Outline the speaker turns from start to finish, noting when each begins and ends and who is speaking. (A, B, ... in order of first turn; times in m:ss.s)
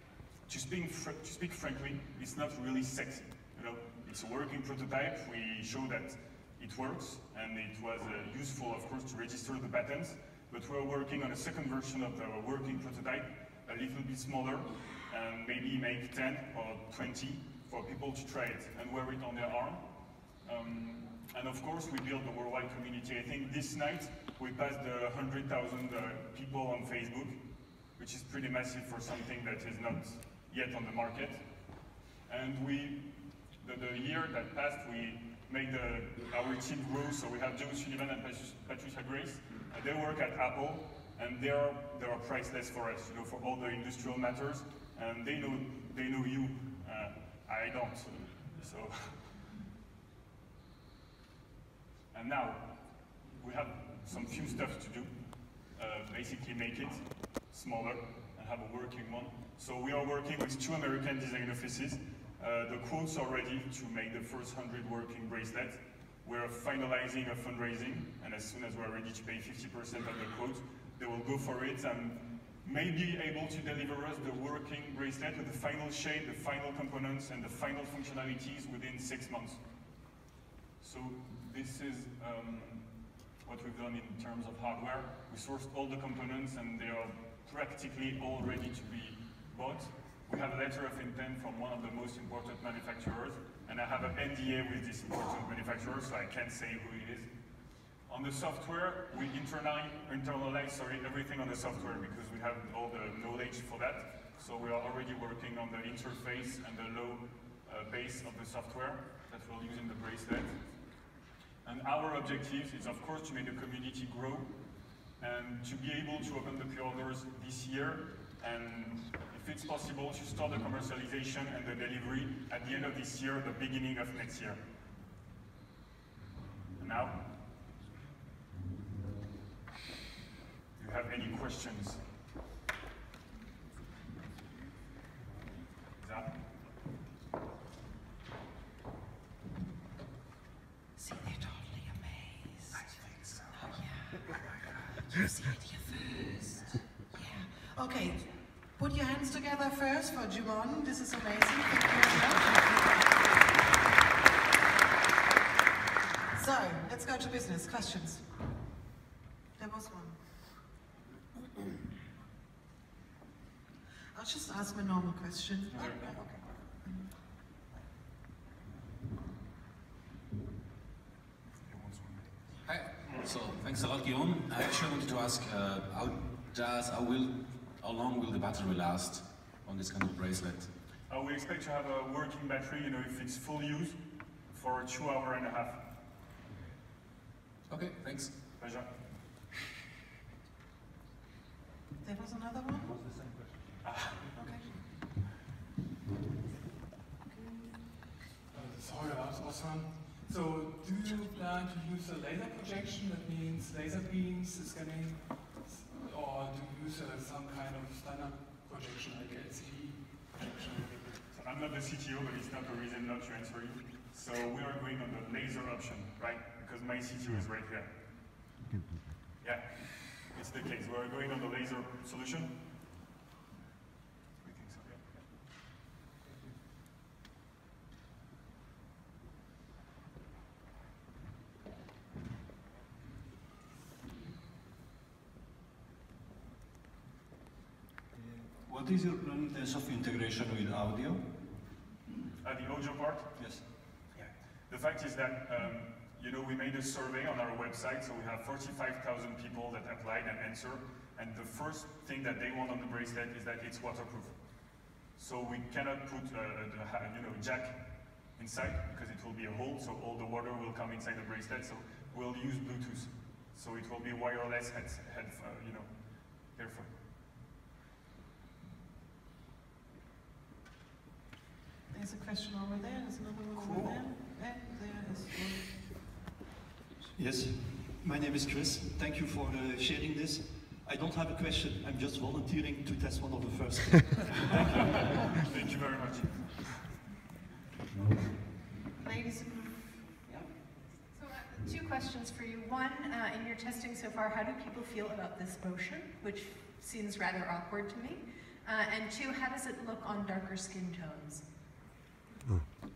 0:00.5-0:27.4 A
0:28.0-0:49.5 A
0:52.1-1:19.6 A
1:20.8-1:37.3 A
1:38.1-1:50.7 A
1:51.6-2:04.6 A
2:06.8-2:07.2 A
2:10.8-2:12.0 A
2:16.0-2:16.4 A
2:21.0-2:22.9 B
2:23.8-2:24.1 B
2:25.0-2:33.0 B
2:36.3-2:38.2 B
2:39.6-2:40.2 B
2:44.1-2:47.1 B
2:45.7-2:46.2 A
2:51.7-2:52.2 A
2:52.7-3:00.7 C
3:01.1-3:05.9 A
3:07.7-3:08.3 C
3:08.6-3:08.9 A
3:12.0-3:13.0 B
3:13.0-3:13.7 D
3:13.8-3:14.2 A
3:14.2-3:14.7 B
3:17.4-3:17.7 B
3:18.5-3:31.1 E
3:31.3-3:38.1 A
3:39.4-3:42.6 A
3:44.4-3:45.1 A
3:58.1-4:01.3 D
4:02.4-4:03.3 A
4:03.4-4:03.6 D
4:04.2-4:27.0 A
4:31.9-4:35.8 B
4:33.7-4:34.0 D
4:37.1-4:45.0 D
4:44.6-4:46.7 A
4:49.0-4:50.4 B
4:51.1-5:01.4 F